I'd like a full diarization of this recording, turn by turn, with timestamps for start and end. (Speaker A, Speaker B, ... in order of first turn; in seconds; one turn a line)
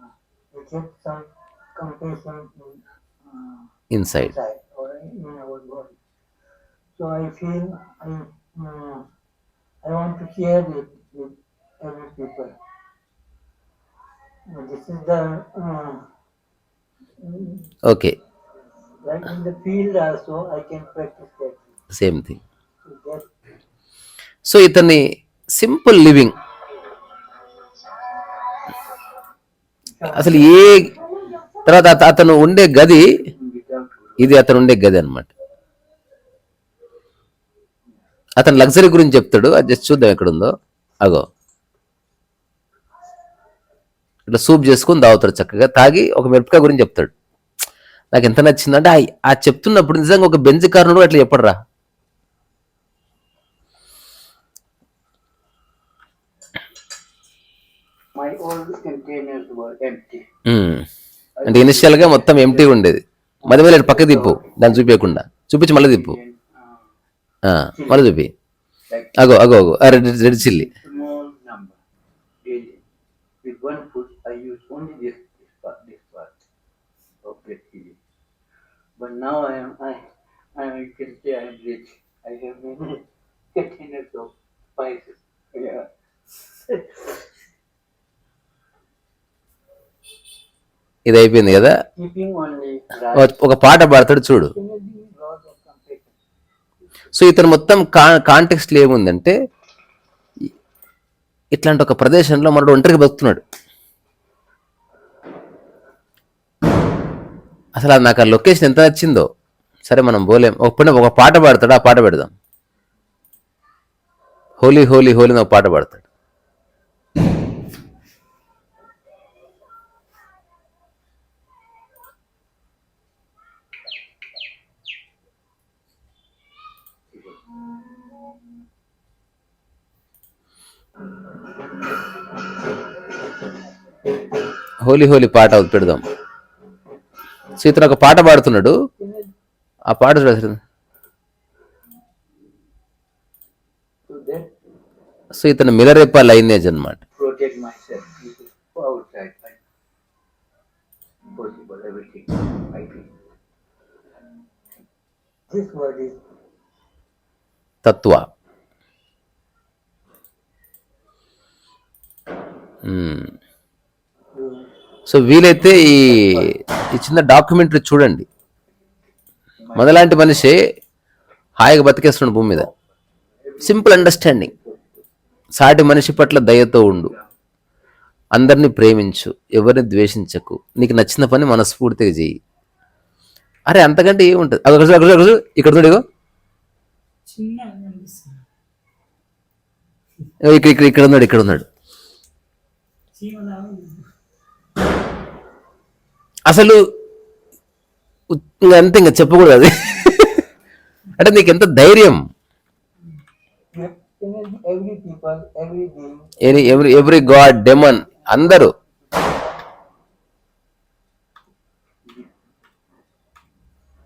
Speaker A: 0.5-3.6
Speaker B: 3.9-4.3
Speaker A: 4.2-6.0
Speaker A: 6.9-9.1
Speaker A: 9.8-12.6
Speaker A: 14.5-16.1
Speaker A: 17.2-17.7
Speaker B: 17.8-18.1
Speaker A: 19.0-21.6
Speaker B: 21.9-22.4
Speaker A: 22.8-23.3
Speaker B: 24.4-25.0
Speaker B: 25.6-26.3
Speaker A: 30.0-30.9
Speaker B: 30.1-30.9
Speaker B: 31.6-33.1
Speaker A: 33.3-34.3
Speaker B: 34.2-35.3
Speaker B: 38.4-40.5
Speaker B: 44.3-47.1
Speaker B: 48.1-51.5
Speaker A: 58.1-60.3
Speaker B: 60.5-60.9
Speaker A: 61.4-62.8
Speaker B: 61.4-66.2
Speaker A: 63.4-64.8
Speaker A: 65.7-66.6
Speaker B: 67.5-68.3
Speaker A: 67.8-68.1
Speaker A: 68.9-69.1
Speaker B: 69.2-70.7
Speaker A: 70.4-71.8
Speaker A: 72.4-72.8
Speaker A: 73.4-76.3
Speaker A: 77.2-78.0
Speaker A: 79.0-85.9
Speaker A: 86.6-87.2
Speaker B: 91.0-91.7
Speaker A: 92.0-93.4
Speaker B: 93.2-94.5
Speaker A: 94.5-96.1
Speaker B: 97.1-99.3
Speaker B: 101.5-103.4
Speaker B: 107.8-109.3
Speaker B: 109.9-112.3
Speaker B: 114.6-116.0
Speaker B: 134.8-136.0
Speaker B: 137.6-138.8
Speaker A: 139.0-139.3
Speaker B: 139.9-140.6
Speaker A: 144.1-144.5
Speaker B: 145.3-147.0
Speaker A: 147.2-149.6
Speaker A: 151.3-153.1
Speaker A: 155.5-156.2
Speaker B: 157.8-158.2
Speaker B: 162.8-163.3
Speaker A: 164.3-164.7
Speaker B: 165.1-168.3
Speaker A: 165.7-166.5
Speaker A: 169.6-170.5
Speaker B: 169.7-170.6
Speaker B: 171.6-172.7
Speaker A: 173.4-175.0
Speaker B: 173.6-174.5
Speaker B: 175.6-177.1
Speaker B: 178.3-182.3
Speaker B: 183.7-186.0
Speaker C: 187.3-188.4
Speaker B: 190.4-191.7
Speaker C: 193.2-194.0
Speaker B: 196.5-196.8
Speaker B: 198.3-200.4
Speaker B: 201.2-202.2
Speaker A: 203.7-209.4
Speaker B: 206.4-208.7